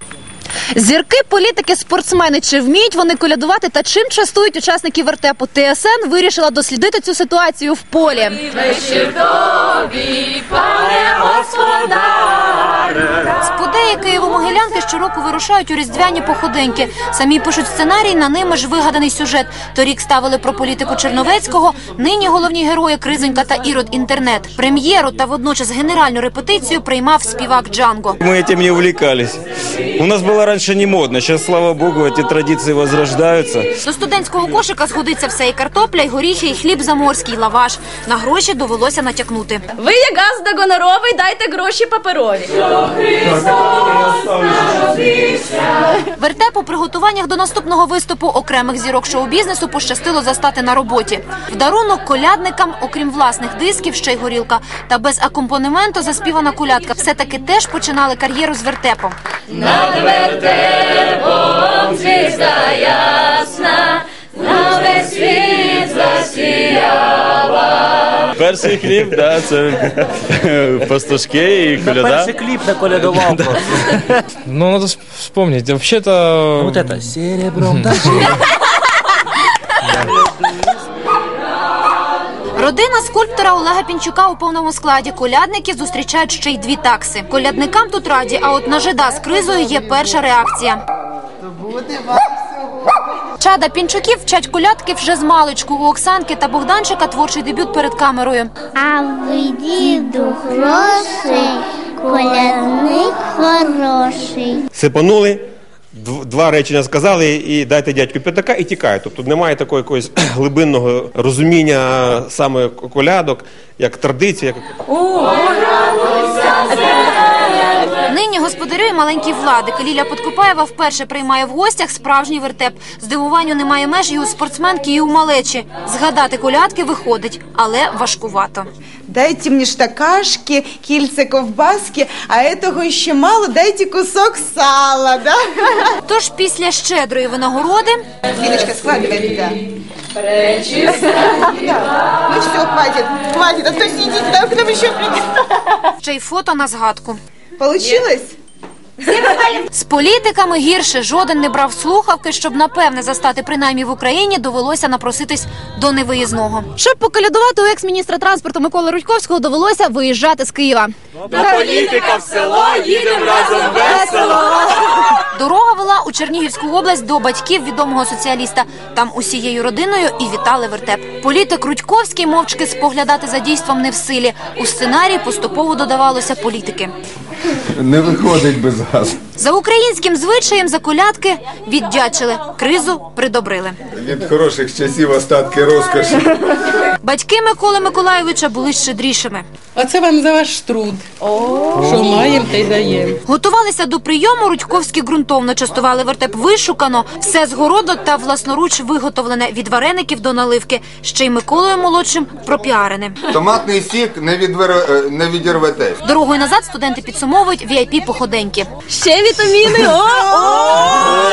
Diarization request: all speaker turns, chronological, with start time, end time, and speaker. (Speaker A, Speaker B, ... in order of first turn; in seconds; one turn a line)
Speaker A: 0.7-9.2
Speaker A: 10.5-12.3
Speaker A: 13.4-28.2
Speaker B: 28.2-29.4
Speaker B: 30.0-33.6
Speaker A: 33.8-39.6
Speaker C: 39.8-42.5
Speaker A: 46.1-59.1
Speaker B: 68.4-72.3
Speaker D: 71.8-73.6
Speaker E: 74.5-77.1
Speaker D: 76.6-78.3
Speaker A: 82.5-90.8
Speaker F: 91.9-92.3
Speaker A: 93.4-98.5
Speaker G: 98.7-104.6
Speaker H: 104.7-105.4
Speaker H: 105.9-114.6
Speaker A: 118.0-128.7
Speaker F: 129.1-135.9
Speaker A: 136.1-138.0
Speaker F: 138.4-139.6
Speaker F: 140.5-145.3
Speaker A: 146.0-147.2
Speaker F: 147.6-148.3
Speaker A: 149.1-176.9
Speaker I: 177.8-179.2
Speaker A: 179.4-183.8
Speaker I: 183.9-186.3
Speaker A: 187.0-189.4
Speaker J: 189.8-191.0
Speaker J: 191.8-193.2
Speaker A: 193.3-203.2
Speaker I: 203.3-206.0
Speaker A: 206.0-208.7
Speaker C: 208.9-211.1